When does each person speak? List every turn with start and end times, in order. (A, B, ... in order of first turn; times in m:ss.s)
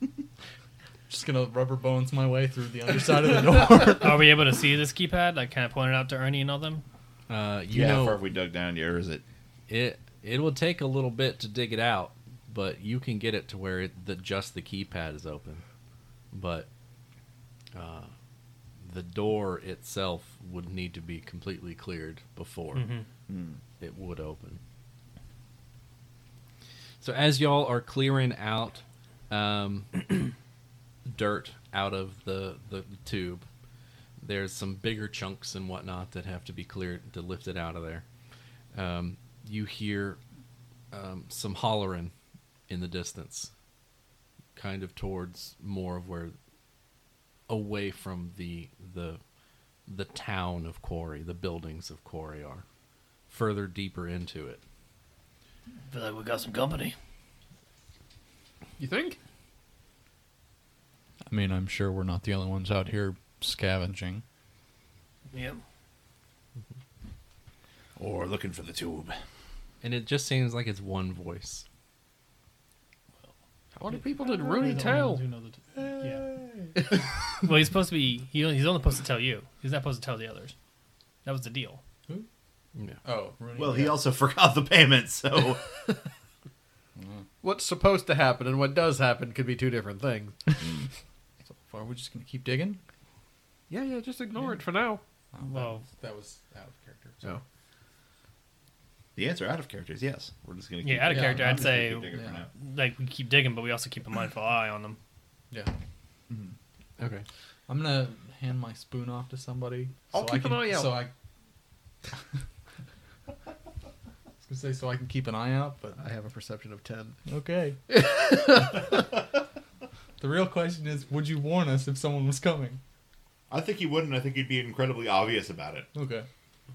0:01.1-0:04.3 A
0:03.9-0:06.8 B
0:07.3-0:08.2 C
0:07.7-0:09.2 D
0:09.7-0:15.6 C
0:16.3-0:16.7 C
0:17.7-0:18.1 C
0:18.8-0:22.9 C
0:22.7-0:23.0 B
0:23.3-0:23.6 D
0:23.8-0:24.6 C
0:27.0-0:30.3 C
0:31.1-0:33.4 C
0:34.2-0:38.0 C
0:38.7-0:40.2 C
0:40.9-0:42.1 C
0:42.7-0:43.5 C
0:44.6-0:46.3 C
0:47.5-0:49.2 C
0:49.9-0:52.6 C
0:53.3-0:54.6 C
0:55.9-0:56.9 B
0:58.8-0:59.2 E
1:01.3-1:04.2 A
1:05.3-1:05.6 B
1:08.0-1:09.2 D
1:09.8-1:11.6 C
1:13.7-1:15.2 E
1:13.9-1:16.2 B
1:16.9-1:20.5 B
1:21.2-1:21.8 B
1:23.0-1:24.0 A
1:23.6-1:25.7 D
1:27.0-1:27.2 A
1:27.4-1:30.4 E
1:31.4-1:32.8 A
1:33.7-1:35.0 E
1:35.3-1:37.4 A
1:35.5-1:35.8 B
1:39.2-1:42.5 D
1:40.8-1:45.0 B
1:41.1-1:42.4 A
1:47.0-1:47.2 C
1:47.7-1:51.1 A
1:50.1-1:51.0 E
1:54.4-1:56.0 A
1:56.0-1:57.2 E
1:57.3-1:58.0 A
1:57.9-1:59.0 E
2:00.2-2:02.8 A
2:03.5-2:05.9 D
2:05.9-2:06.3 A